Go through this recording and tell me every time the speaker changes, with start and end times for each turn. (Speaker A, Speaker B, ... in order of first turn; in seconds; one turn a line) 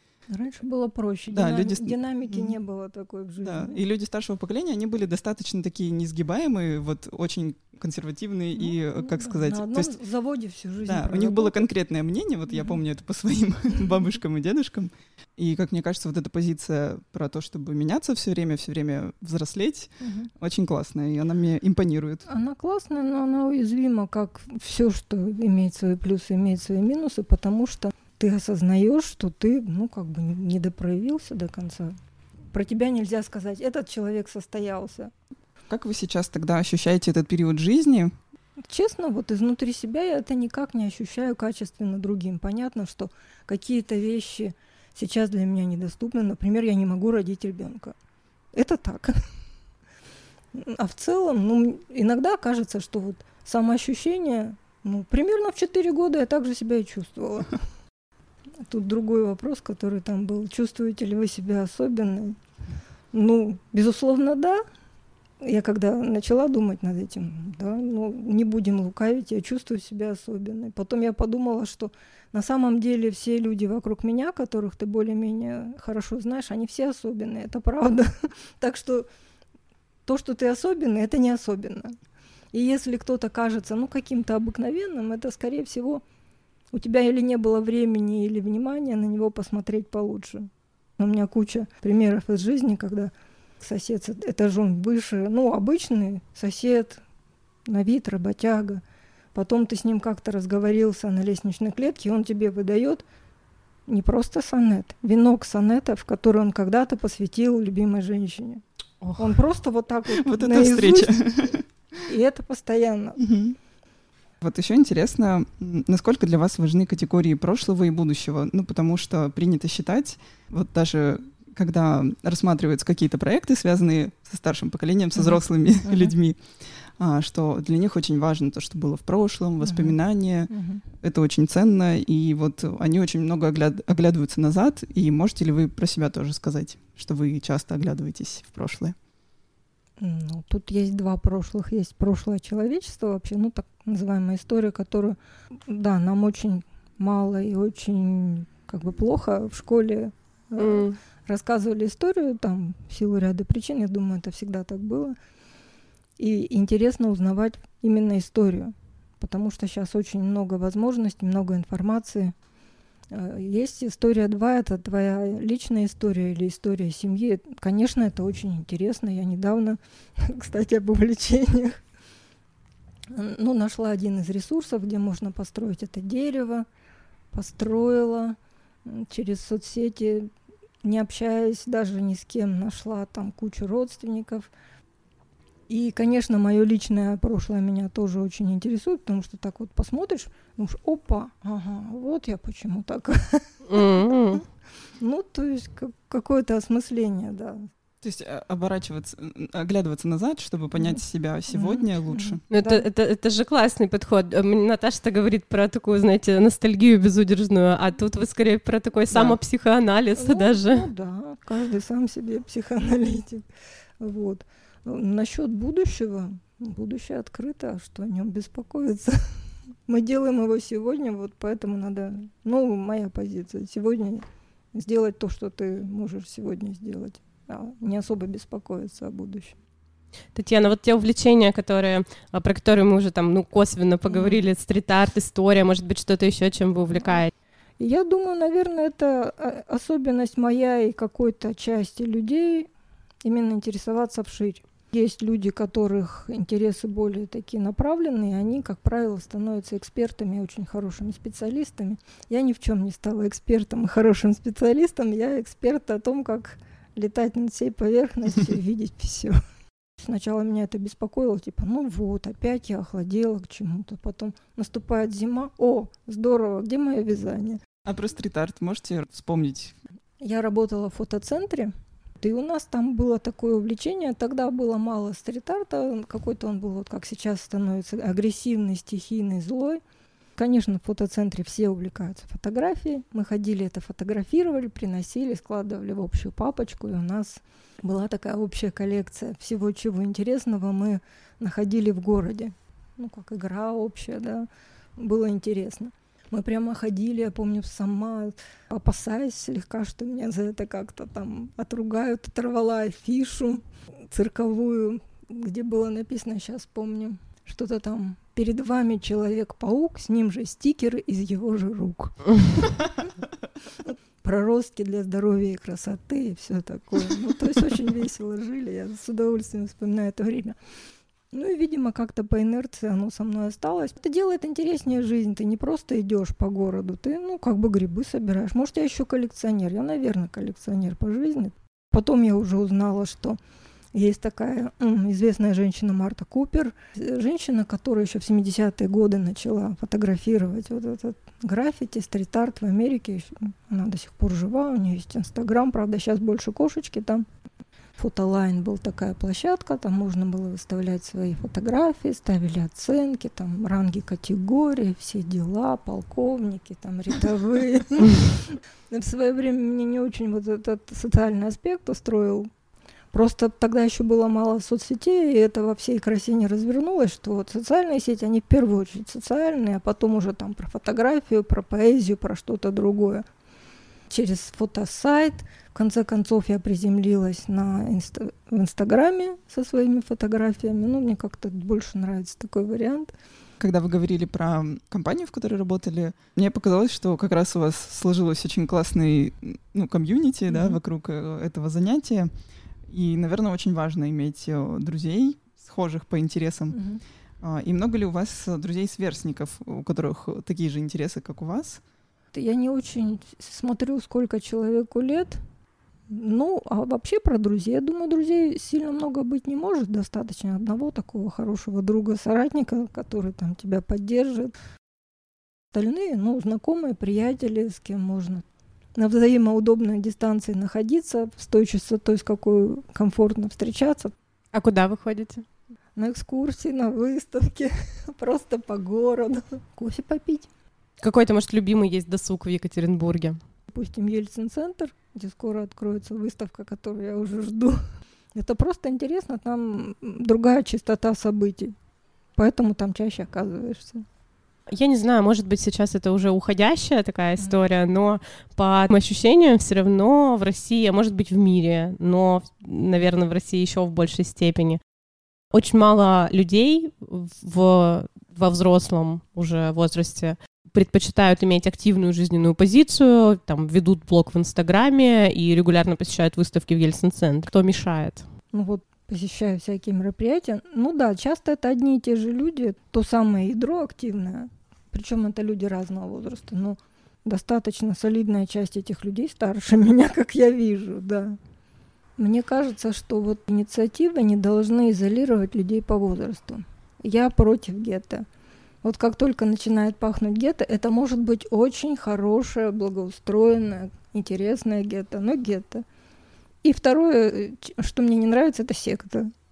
Speaker A: 0.3-3.8
Speaker B: 1.3-2.5
Speaker B: 3.4-9.9
Speaker A: 8.6-11.7
Speaker B: 10.9-22.3
Speaker A: 20.0-20.3
Speaker A: 22.3-32.0
Speaker A: 32.5-35.1
Speaker B: 35.7-38.1
Speaker A: 38.7-48.0
Speaker A: 48.5-49.2
Speaker A: 50.5-57.6
Speaker A: 58.7-62.4
Speaker A: 63.1-64.6
Speaker A: 65.4-79.1
Speaker A: 80.1-82.0
Speaker A: 82.5-86.0
Speaker A: 86.7-97.0
Speaker A: 97.7-98.8
Speaker A: 99.3-103.0
Speaker A: 103.9-108.6
Speaker A: 109.2-113.2
Speaker B: 110.1-111.7
Speaker B: 113.2-113.6
Speaker B: 114.4-126.4
Speaker A: 125.2-126.1
Speaker B: 127.0-130.5
Speaker A: 129.6-130.0
Speaker A: 130.5-130.8
Speaker B: 131.0-138.9
Speaker A: 140.0-155.2
Speaker C: 150.6-151.0
Speaker A: 156.2-162.3
Speaker A: 163.1-171.8
Speaker A: 173.1-176.7
Speaker A: 177.3-180.3
Speaker A: 180.8-184.5
Speaker A: 185.7-194.4
Speaker C: 193.7-194.4
Speaker A: 195.0-197.7
Speaker B: 198.0-202.4
Speaker A: 201.5-202.9
Speaker C: 202.5-210.9
Speaker B: 209.1-209.4
Speaker A: 210.2-213.4
Speaker A: 214.0-219.3
Speaker A: 219.9-229.6
Speaker C: 230.3-237.3
Speaker A: 234.1-234.4
Speaker A: 237.8-242.7
Speaker A: 243.2-259.4
Speaker A: 260.0-267.6
Speaker B: 267.9-269.8
Speaker A: 270.2-279.8
Speaker A: 280.4-313.1
Speaker A: 313.9-320.6
Speaker A: 321.3-333.4
Speaker A: 333.9-347.2
Speaker A: 348.0-362.5
Speaker A: 363.1-373.2
Speaker A: 374.1-383.1
Speaker B: 383.6-392.3
Speaker A: 390.5-390.8
Speaker B: 392.9-396.8
Speaker A: 396.7-397.0
Speaker B: 397.4-401.8
Speaker A: 402.3-405.4
Speaker A: 406.1-414.5
Speaker A: 415.7-418.4
Speaker A: 419.0-424.1
Speaker C: 424.5-425.4
Speaker A: 426.0-430.5
Speaker C: 431.0-433.4
Speaker A: 433.7-437.8
Speaker A: 438.4-441.7
Speaker A: 442.4-444.1
Speaker C: 444.7-454.8
Speaker C: 455.5-468.3
Speaker A: 468.5-481.4
Speaker A: 482.2-488.3
Speaker A: 488.8-495.9
Speaker A: 496.6-499.3